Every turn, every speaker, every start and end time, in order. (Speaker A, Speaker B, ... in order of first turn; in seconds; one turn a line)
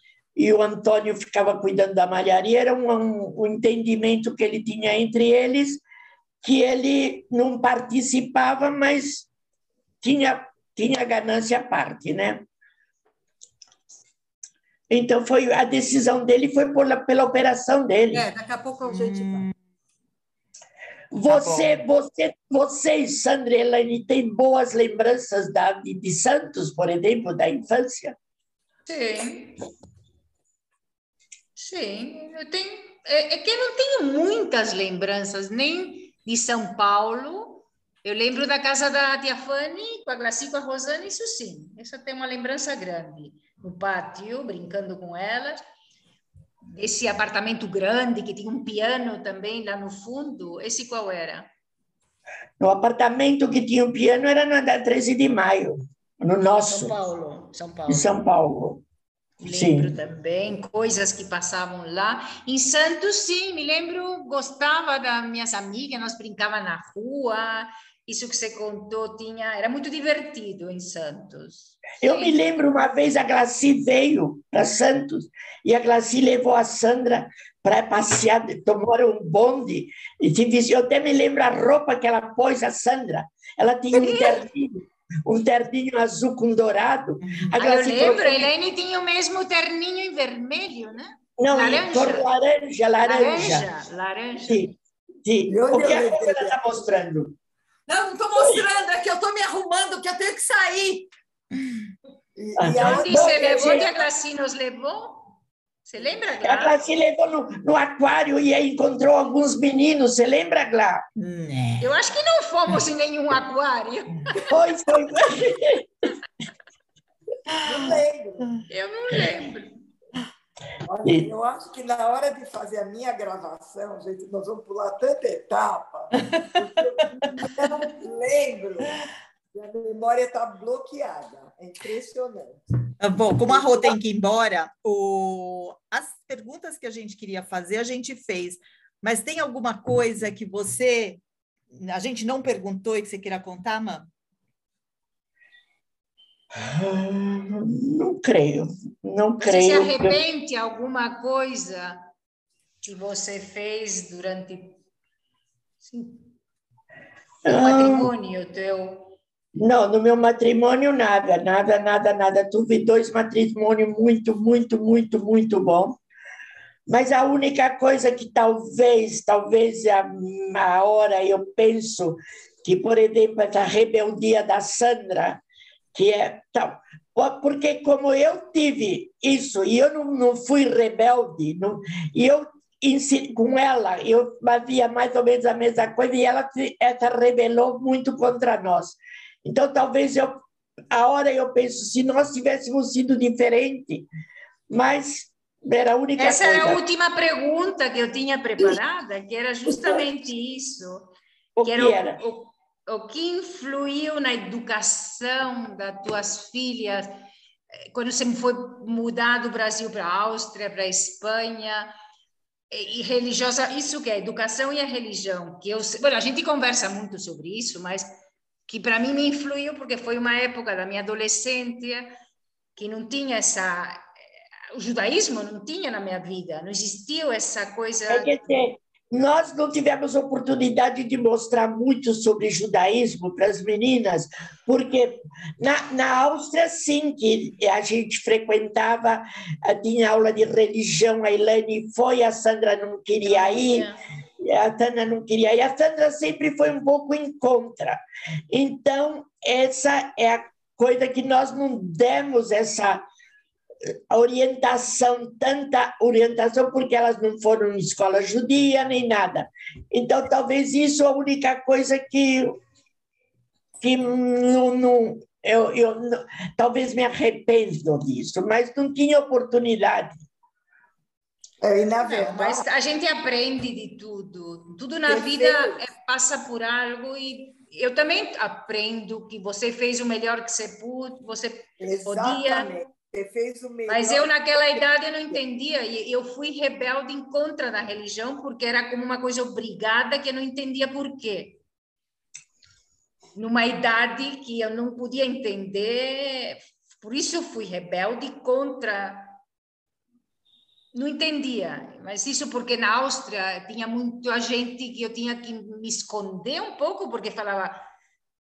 Speaker A: 0.3-5.8
Speaker A: 6.4-9.3
Speaker A: 10.0-12.4
Speaker A: 14.9-18.3
Speaker B: 18.1-19.5
Speaker C: 18.8-19.5
Speaker A: 21.1-28.1
Speaker C: 21.3-21.8
Speaker D: 28.9-29.6
Speaker D: 31.6-45.6
Speaker D: 46.8-51.5
Speaker A: 52.6-57.0
Speaker D: 56.6-58.1
Speaker A: 57.9-58.8
Speaker D: 59.4-72.4
Speaker A: 59.5-60.0
Speaker A: 72.0-88.5
Speaker D: 83.9-84.4
Speaker D: 87.6-92.3
Speaker A: 91.4-93.7
Speaker D: 93.0-94.7
Speaker A: 94.5-97.4
Speaker E: 95.5-96.6
Speaker B: 97.9-101.1
Speaker A: 98.3-98.7
Speaker E: 102.3-103.9
Speaker A: 102.6-103.9
Speaker D: 102.8-106.8
Speaker A: 106.4-111.0
Speaker C: 111.2-111.8
Speaker D: 111.8-114.4
Speaker A: 114.4-115.9
Speaker E: 117.6-118.5
Speaker D: 118.7-119.8
Speaker E: 120.8-132.6
Speaker C: 133.0-141.2
Speaker E: 133.4-133.9
Speaker C: 141.7-144.1
Speaker A: 146.6-150.2
Speaker D: 149.4-152.1
Speaker D: 152.8-154.8
Speaker D: 155.8-156.3
Speaker A: 157.4-158.1
Speaker D: 157.5-159.1
Speaker A: 159.6-166.0
Speaker A: 166.9-175.4
Speaker A: 175.9-194.1
Speaker A: 194.7-196.8
Speaker D: 196.2-207.2
Speaker A: 199.6-200.1
Speaker A: 201.6-202.2
Speaker D: 207.9-211.9
Speaker D: 212.7-218.2
Speaker D: 218.7-222.1
Speaker D: 222.8-224.1
Speaker D: 224.7-228.3
Speaker A: 228.1-243.8
Speaker D: 243.2-244.0
Speaker A: 244.4-253.0
Speaker A: 254.1-262.6
Speaker A: 263.8-270.2
Speaker E: 271.6-272.6
Speaker D: 272.0-282.7
Speaker E: 275.0-275.9
Speaker E: 281.8-285.4
Speaker D: 283.9-291.6
Speaker D: 293.4-299.4
Speaker D: 300.9-307.9